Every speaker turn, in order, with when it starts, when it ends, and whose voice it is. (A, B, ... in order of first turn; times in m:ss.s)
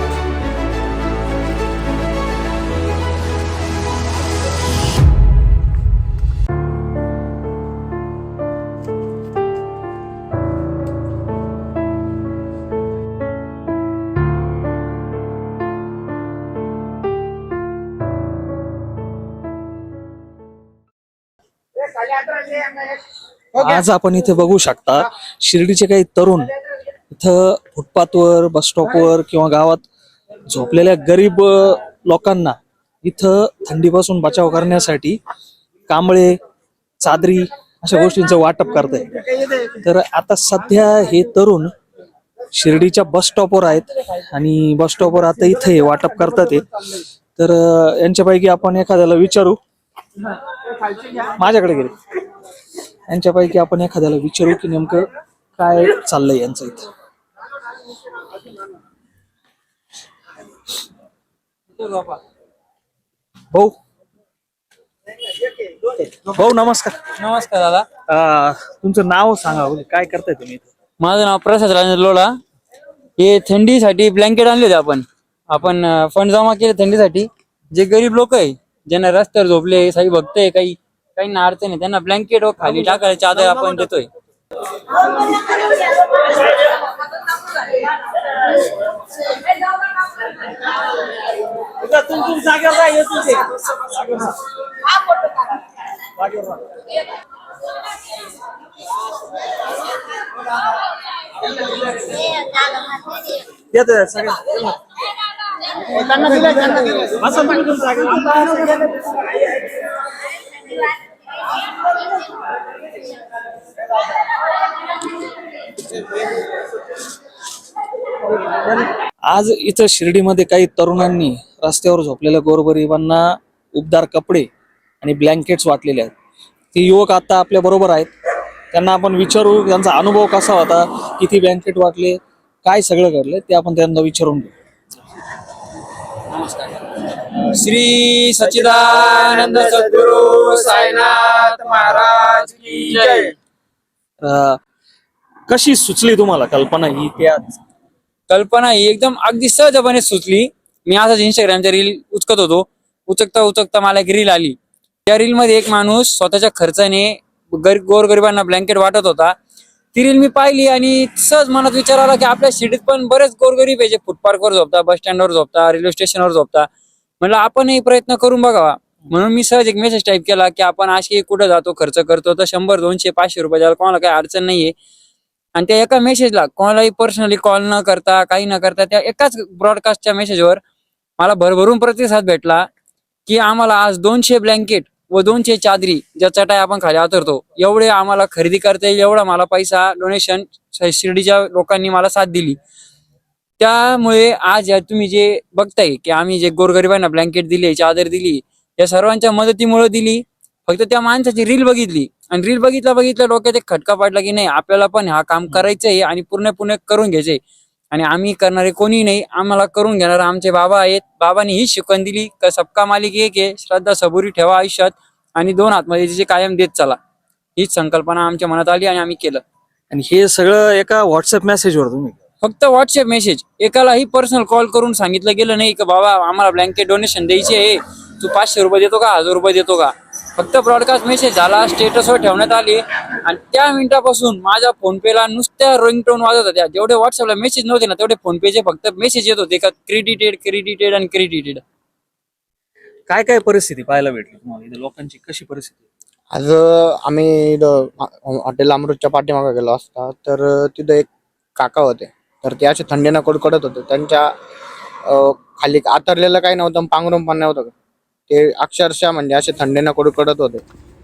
0:22.4-0:22.7 A
0:23.5-0:26.5 A
0:27.1-0:29.8 A
0:30.5-0:35.2 A
0:35.9-0:36.4 A
0:37.0-0:41.7 A
0:42.5-0:49.6 A
0:51.0-0:51.9 A
0:53.1-0:56.9 A
1:01.8-1:02.2 B
1:05.8-1:07.0 A
1:07.1-1:07.9 B
1:08.1-1:10.7 A
1:11.0-1:12.4 B
1:13.2-1:24.1 B
1:31.8-1:34.3 A
1:36.2-1:36.6 A
1:43.7-1:44.7 A
1:45.9-1:47.2 C
1:47.2-1:48.8 A
1:58.6-2:04.5 A
2:05.0-2:06.1 A
2:06.7-2:08.1 A
2:08.7-2:14.5 A
2:16.3-2:23.3 B
2:24.2-2:24.6 A
2:25.5-2:27.6 A
2:28.3-2:39.3 B
2:39.9-2:46.7 B
2:47.2-2:54.7 B
2:55.5-3:00.6 B
3:01.2-3:02.7 B
3:03.2-3:12.6 B
3:13.6-3:27.4 B
3:27.9-3:37.0 B
3:37.6-3:39.4 B
3:39.9-3:42.2 A
3:42.4-4:01.6 B
4:03.1-4:05.8 A
4:06.3-4:14.3 C
4:15.1-4:17.7 C
4:18.3-4:20.6 C